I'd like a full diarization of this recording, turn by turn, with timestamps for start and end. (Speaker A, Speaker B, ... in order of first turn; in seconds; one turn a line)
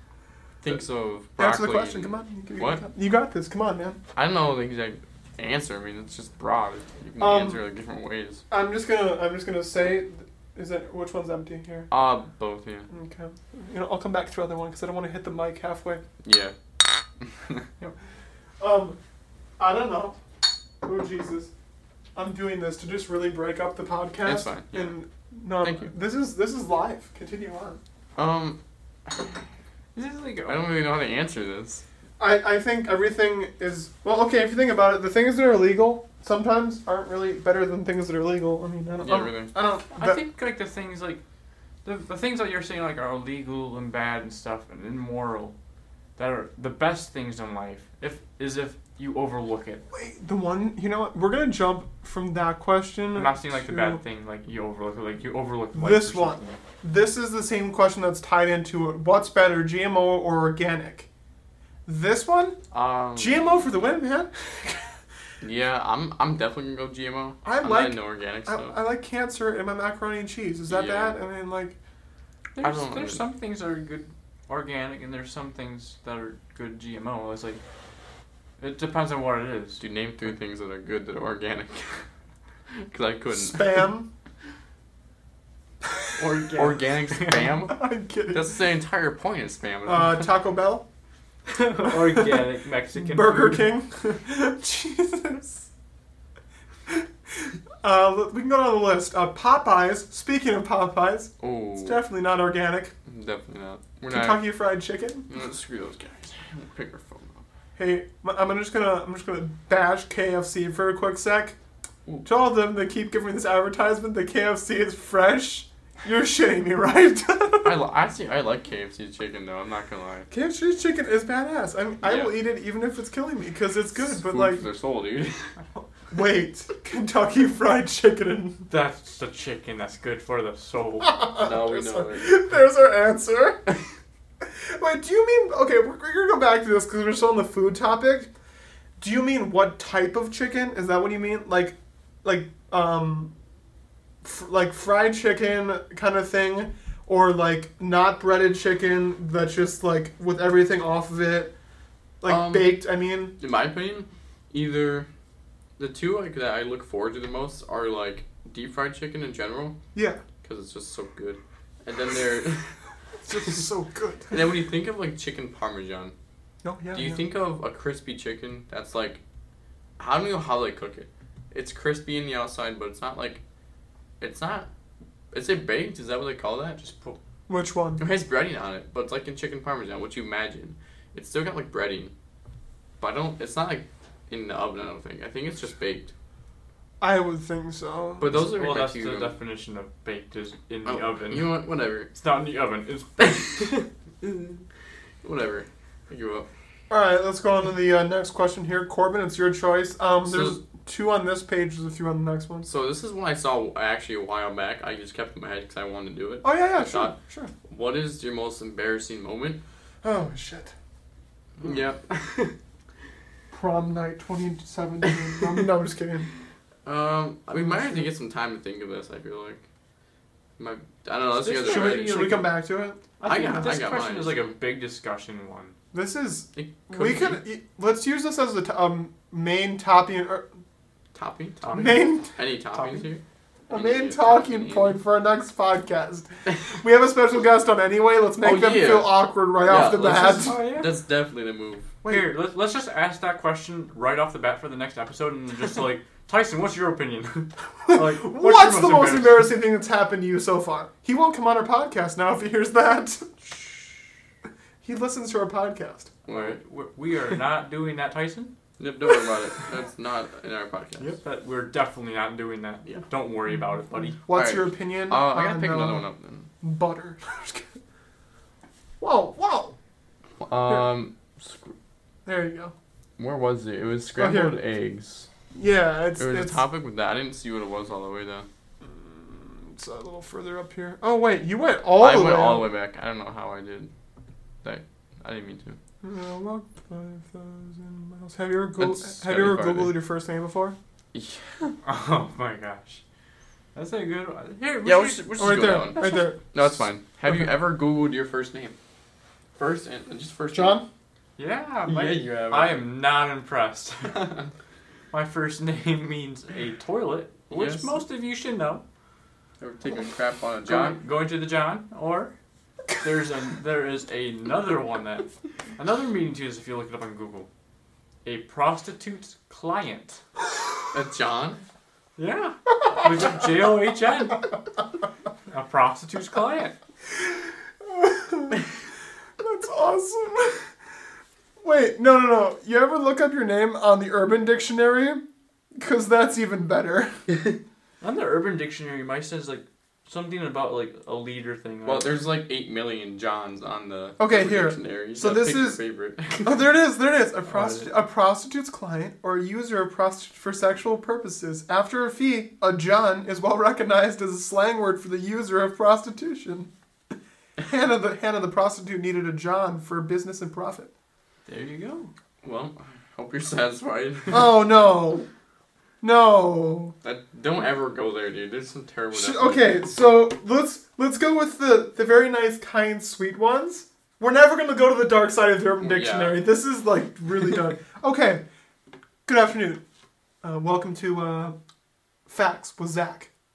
Speaker A: 0.6-2.8
Speaker B: 1.4-4.0
Speaker A: 4.1-8.4
Speaker B: 7.2-7.6
Speaker B: 8.5-11.9
Speaker A: 11.9-12.9
Speaker B: 12.9-16.0
Speaker A: 16.2-17.6
Speaker B: 18.6-19.0
Speaker B: 19.6-20.2
Speaker B: 20.8-21.5
Speaker B: 22.1-27.8
Speaker A: 24.2-25.0
Speaker A: 25.6-25.9
Speaker A: 28.1-29.4
Speaker C: 29.9-30.6
Speaker A: 30.4-31.8
Speaker B: 32.2-40.2
Speaker A: 39.0-39.5
Speaker C: 40.0-41.2
Speaker C: 41.8-45.5
Speaker C: 46.2-49.8
Speaker B: 49.9-54.0
Speaker C: 53.1-56.6
Speaker B: 55.7-61.1
Speaker B: 61.9-62.6
Speaker A: 62.7-63.8
Speaker B: 63.1-65.0
Speaker A: 65.4-68.7
Speaker B: 67.4-71.8
Speaker A: 70.7-71.2
Speaker C: 72.5-77.6
Speaker A: 72.6-73.2
Speaker C: 78.6-79.8
Speaker A: 79.8-82.0
Speaker A: 82.7-83.9
Speaker B: 83.3-84.1
Speaker C: 86.2-87.4
Speaker A: 86.5-90.2
Speaker B: 87.7-88.6
Speaker B: 89.8-90.8
Speaker C: 91.5-93.7
Speaker B: 92.9-95.7
Speaker B: 97.8-102.9
Speaker A: 101.4-102.0
Speaker A: 103.0-104.4
Speaker B: 104.1-105.3
Speaker A: 105.3-107.4
Speaker B: 107.8-111.5
Speaker B: 112.2-117.8
Speaker A: 117.6-120.3
Speaker B: 120.3-124.6
Speaker A: 122.0-122.3
Speaker A: 124.0-125.5
Speaker B: 126.1-128.7
Speaker C: 128.7-131.2
Speaker B: 131.0-133.6
Speaker A: 131.3-132.3
Speaker B: 134.4-138.3
Speaker B: 139.0-143.3
Speaker B: 144.2-151.5
Speaker B: 152.2-153.3
Speaker A: 152.2-152.8
Speaker A: 153.4-155.1
Speaker A: 155.8-159.8
Speaker B: 159.9-160.2
Speaker A: 160.4-162.7
Speaker B: 163.2-164.4
Speaker A: 163.3-163.6
Speaker A: 164.3-166.1
Speaker B: 166.6-167.2
Speaker A: 166.9-169.2
Speaker A: 170.0-173.4
Speaker A: 174.2-174.7
Speaker A: 175.3-176.9
Speaker C: 176.8-177.2
Speaker B: 177.5-178.0
Speaker A: 178.0-182.1
Speaker A: 183.0-186.1
Speaker B: 187.0-188.4
Speaker A: 188.2-189.3
Speaker C: 188.3-193.8
Speaker A: 190.8-192.1
Speaker A: 195.2-196.5
Speaker B: 196.9-202.7
Speaker A: 200.2-200.6
Speaker A: 202.7-209.6
Speaker B: 206.4-207.5
Speaker B: 210.0-210.7
Speaker A: 211.6-212.5
Speaker B: 213.5-216.3
Speaker A: 216.8-219.6
Speaker B: 217.6-218.1
Speaker A: 220.6-222.4
Speaker C: 221.4-222.5
Speaker B: 221.5-223.7
Speaker C: 223.2-225.8
Speaker A: 223.2-224.5
Speaker B: 225.9-230.5
Speaker A: 226.6-227.4
Speaker A: 231.1-235.0
Speaker C: 231.6-232.2
Speaker B: 231.7-232.3
Speaker C: 232.7-233.1
Speaker B: 233.7-240.6
Speaker A: 238.4-241.9
Speaker C: 240.3-240.9
Speaker C: 242.1-249.5
Speaker B: 247.8-254.0
Speaker B: 254.8-256.1
Speaker A: 256.2-256.6
Speaker C: 256.3-258.5
Speaker A: 258.8-261.1
Speaker C: 261.0-264.2
Speaker B: 264.1-266.0
Speaker A: 264.3-266.5
Speaker B: 266.6-267.7
Speaker B: 269.0-269.8
Speaker A: 270.4-271.8
Speaker B: 272.2-272.7
Speaker A: 273.2-275.3
Speaker B: 274.1-274.6
Speaker B: 275.5-276.6
Speaker A: 276.2-278.5
Speaker B: 278.8-282.7
Speaker A: 282.0-283.9
Speaker A: 284.6-285.8
Speaker B: 286.0-290.8
Speaker A: 288.8-290.0
Speaker A: 291.1-291.7
Speaker C: 291.8-293.0
Speaker C: 293.7-296.2
Speaker A: 294.8-298.8
Speaker B: 295.4-296.6
Speaker A: 299.6-300.8
Speaker B: 300.5-300.9
Speaker C: 301.4-304.4
Speaker A: 301.9-302.9
Speaker A: 304.1-304.5
Speaker C: 305.1-308.8
Speaker A: 307.5-308.0
Speaker A: 309.6-311.0
Speaker C: 310.6-312.3
Speaker C: 313.0-317.5
Speaker C: 318.2-320.2
Speaker A: 320.9-321.6
Speaker C: 322.2-324.5
Speaker C: 325.5-326.8
Speaker B: 327.1-328.6
Speaker B: 329.4-330.7
Speaker B: 331.6-335.2
Speaker B: 335.8-337.2
Speaker C: 338.0-342.1
Speaker A: 341.8-346.7
Speaker B: 344.2-345.8
Speaker B: 346.4-356.7
Speaker C: 347.5-347.9
Speaker B: 357.6-360.9
Speaker C: 361.5-362.1
Speaker A: 362.4-364.6
Speaker B: 364.3-365.3
Speaker B: 366.0-366.9
Speaker A: 367.0-369.8
Speaker B: 369.1-378.4
Speaker A: 375.8-376.4
Speaker B: 379.2-379.8
Speaker B: 380.4-381.6
Speaker B: 382.3-383.3